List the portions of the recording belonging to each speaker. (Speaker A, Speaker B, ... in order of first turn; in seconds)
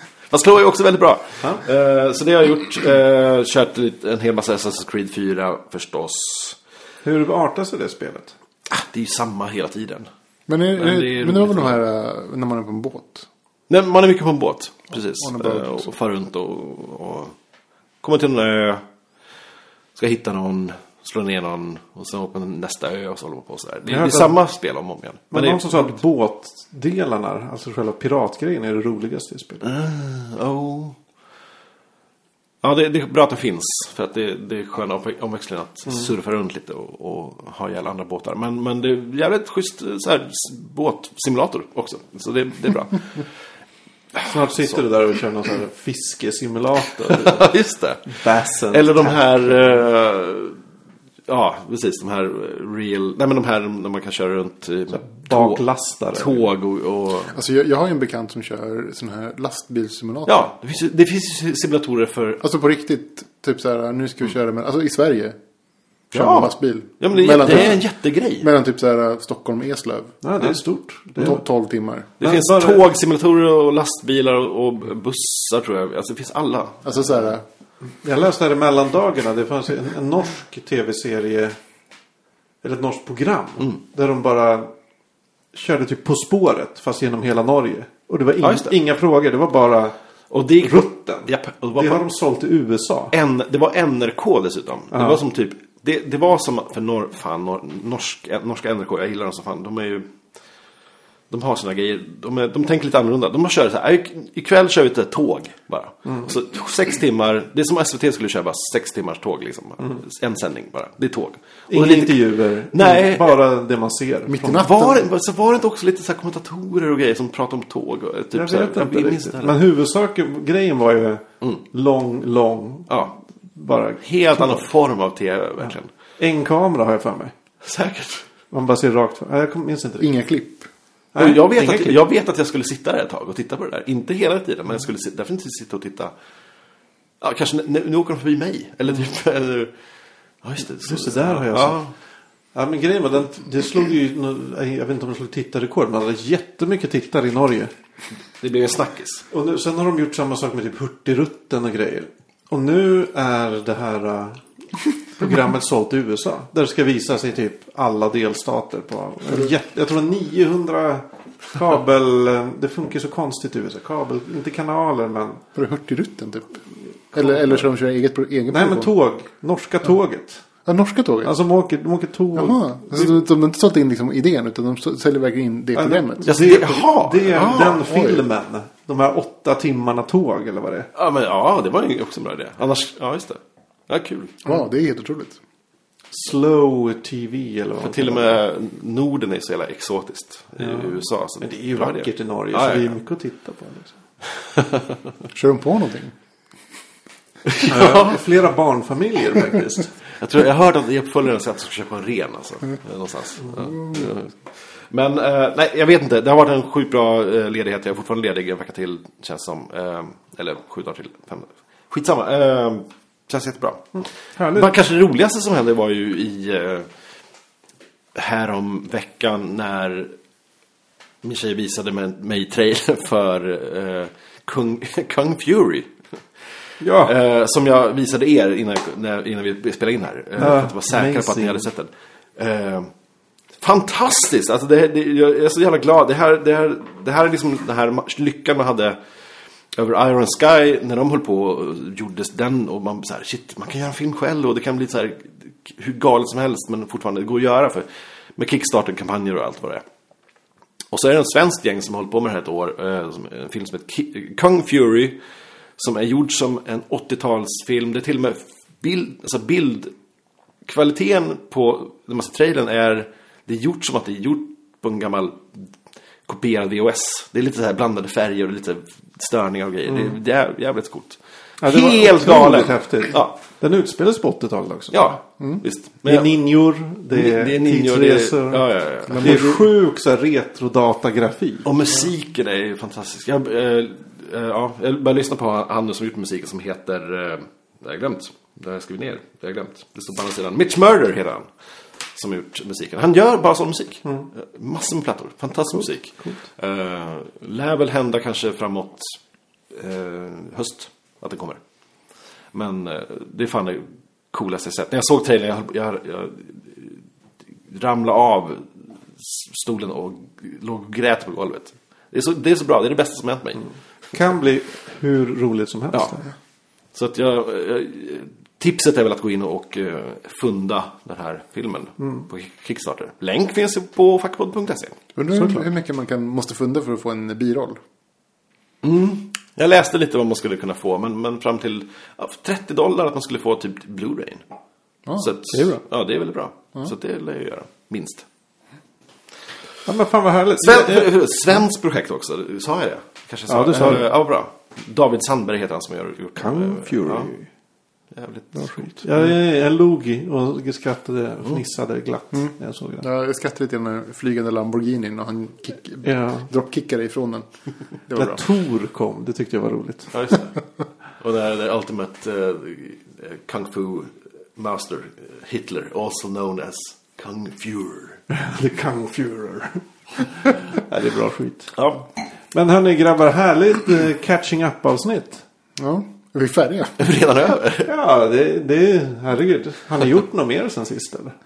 Speaker A: 0.3-6.6, 8.7-10.1, 10.8-11.8, 13.7-17.3, 18.0-18.8, 19.9-26.0, 29.6-30.9, 32.6-43.3, 44.1-44.8, 47.0-50.6, 51.3-55.6, 56.1-57.4, 60.3-62.4, 66.1-68.5, 72.2-76.9, 88.4-88.8, 90.3-92.1, 93.1-100.1, 101.3-113.4, 114.4-119.6, 122.9-123.1, 124.0-125.9, 127.6-128.3, 131.2-136.1, 137.2-139.7, 140.4-141.9, 148.4-149.3, 176.2-177.8, 180.9-184.4, 187.8-193.0, 194.5-194.8, 197.5-198.2, 200.2-216.9, 218.1-220.1, 221.2-225.9, 226.9-232.9, 233.6-239.0, 239.7-249.8, 250.9-255.2, 255.8-259.9, 260.6-265.7, 266.2-273.3, 274.9-276.4, 277.1-279.5, 281.6-291.5, 292.1-299.2, 299.7-301.6, 302.5-307.0, 307.7-313.6, 316.9-325.0, 328.8-334.4, 335.2-338.2, 340.6-347.3, 348.1-349.1, 360.1-360.6, 361.2-368.2, 371.8-372.0, 377.0-377.9
Speaker B: 7.0-8.3, 23.9-24.3, 25.3-29.6, 44.2-47.5, 48.0-49.5, 54.9-56.5, 70.2-71.4, 72.2-72.8, 78.0-81.6, 82.6-84.7, 85.5-89.9, 90.6-93.1, 94.9-95.2, 111.7-114.4, 118.3-124.6, 126.2-127.3, 128.5-130.2, 131.1-132.0, 140.8-141.8, 142.5-147.7, 149.3-154.4, 155.0-165.4, 168.5-170.4, 171.2-173.1, 175.7-180.9, 186.1-188.3, 190.6-194.0, 197.7-199.9, 214.3-214.7, 226.8-227.1, 230.4-231.7, 269.9-270.1, 271.6-275.1, 276.0-281.7, 295.7-296.4, 314.1-316.3, 322.0-322.3, 325.3-325.6, 335.5-335.8, 339.9-341.1, 343.5-344.1, 346.4-347.5, 348.6-353.0, 356.0-356.5, 358.1-360.1, 368.3-371.7, 372.5-375.4, 377.8-381.4
Speaker C: 10.5-13.3, 14.9-15.9, 57.3-60.5, 62.4-65.3, 66.1-67.8, 68.4-70.2, 71.2-72.1, 76.8-77.4, 114.3-115.1, 130.0-130.7, 165.5-168.9, 170.6-171.3, 172.3-176.3, 177.8-178.2, 184.4-185.4, 195.3-196.1, 279.1-279.6, 325.1-327.8, 352.3-357.5, 358.1-358.4, 375.8-377.0